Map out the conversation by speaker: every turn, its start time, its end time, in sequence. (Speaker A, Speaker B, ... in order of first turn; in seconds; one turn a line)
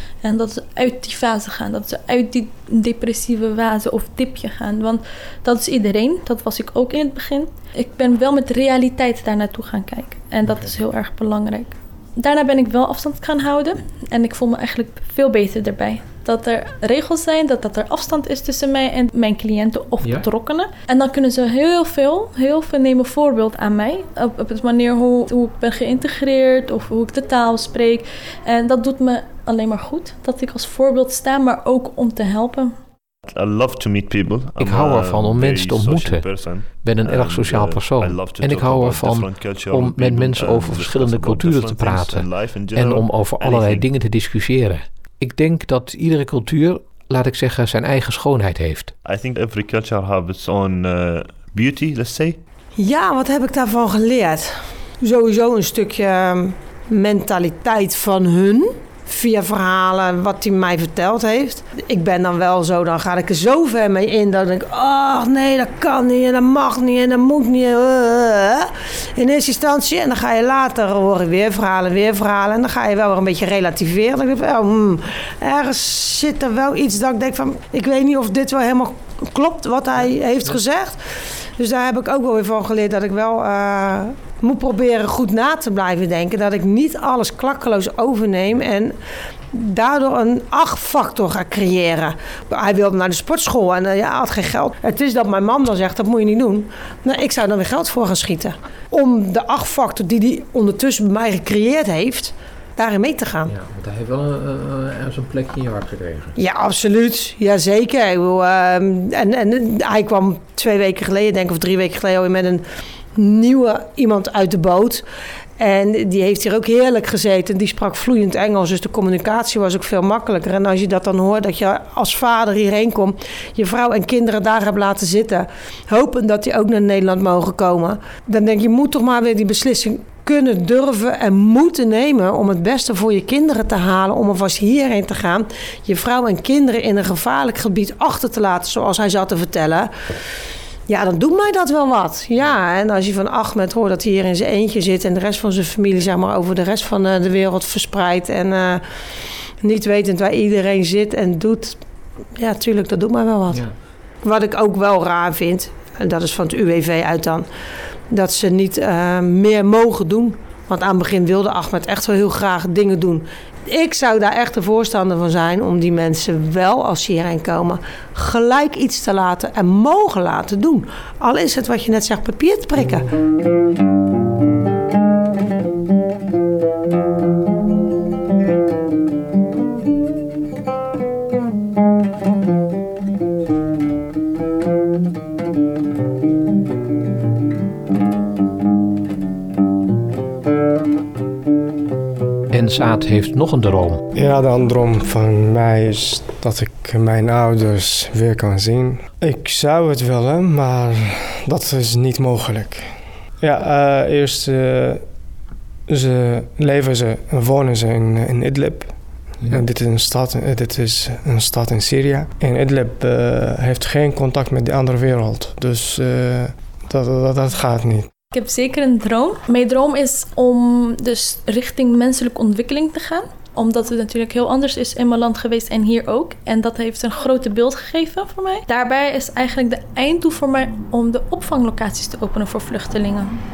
Speaker A: 0.2-32.7
Speaker B: 33.3-43.9
Speaker C: 34.6-36.2
Speaker C: 36.8-48.9
Speaker B: 49.0-52.4
Speaker D: 52.8-81.0
Speaker D: 81.6-89.0
Speaker D: 89.5-103.5
Speaker C: 103.5-106.3
Speaker D: 106.4-115.0
Speaker D: 115.6-139.9
Speaker D: 140.9-148.8
Speaker D: 149.6-151.8
Speaker D: 152.3-153.6
Speaker D: 154.2-157.4
Speaker D: 158.1-173.1
Speaker C: 192.5-194.0
Speaker E: 194.1-205.0
Speaker E: 205.9-218.1
Speaker A: 218.3-233.3